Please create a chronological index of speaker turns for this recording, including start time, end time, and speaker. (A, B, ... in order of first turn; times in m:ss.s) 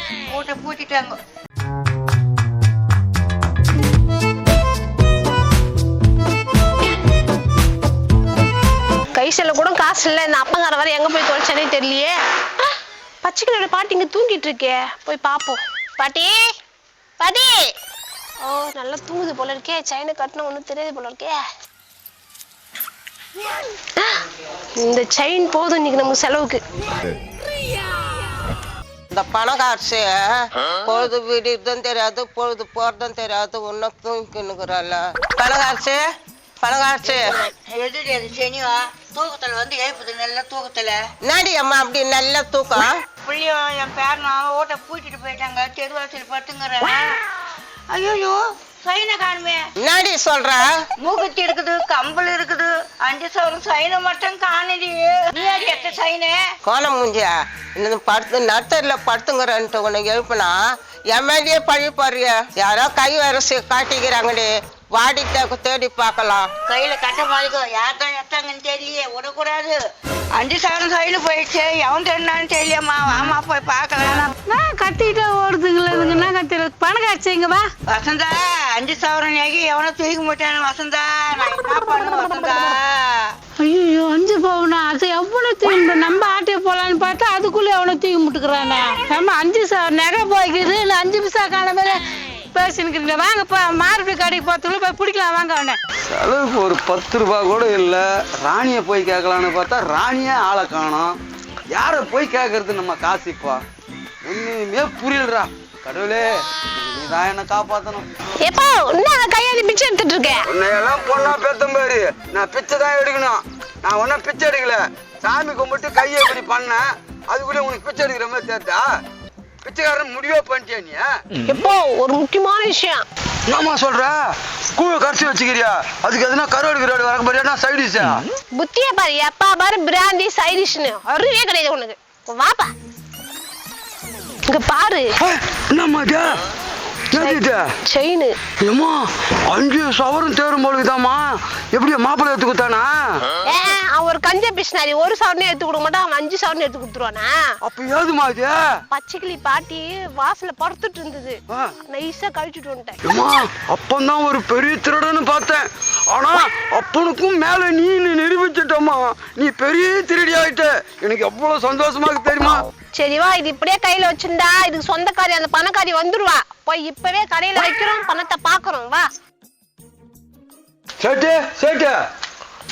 0:00.3-0:01.1 A
0:09.1-0:16.4 B
0:17.2-0:17.7 B
0:18.4-0:21.4 B
0:24.8-0:26.6 B
0:29.1-0:36.0 C
0:36.6-0:37.2 C
0:37.1-0:41.0 A
0:41.2-0:43.0 C
0:43.2-0:47.1 A
0:47.9-0:49.7 A
0:49.8-0:50.7 C
0:51.0-0:56.4 A
0:56.6-1:06.5 C
1:06.6-1:09.8 A
1:10.3-1:14.3 A
1:14.4-1:17.7 D
1:17.9-1:23.2 A
1:23.6-1:32.0 D
1:32.5-1:35.8 D
1:36.0-1:41.2 E
1:41.7-1:43.6 E
1:44.2-1:48.0 E
1:48.4-1:50.4 B
1:50.5-1:58.9 E
1:59.6-2:01.1 E
2:01.4-2:03.0 B
2:03.5-2:04.2 E
2:04.7-2:08.3 E
2:08.5-2:12.7 B
2:14.4-2:15.1 B
2:15.2-2:16.4 E
2:17.1-2:17.7 E
2:17.1-2:18.4 B
2:18.6-2:23.2 E
2:23.5-2:27.4 B
2:27.6-2:28.6 E
2:28.9-2:33.0 B
2:33.0-2:42.6 E
2:42.9-2:49.1 B
2:51.0-2:52.0 E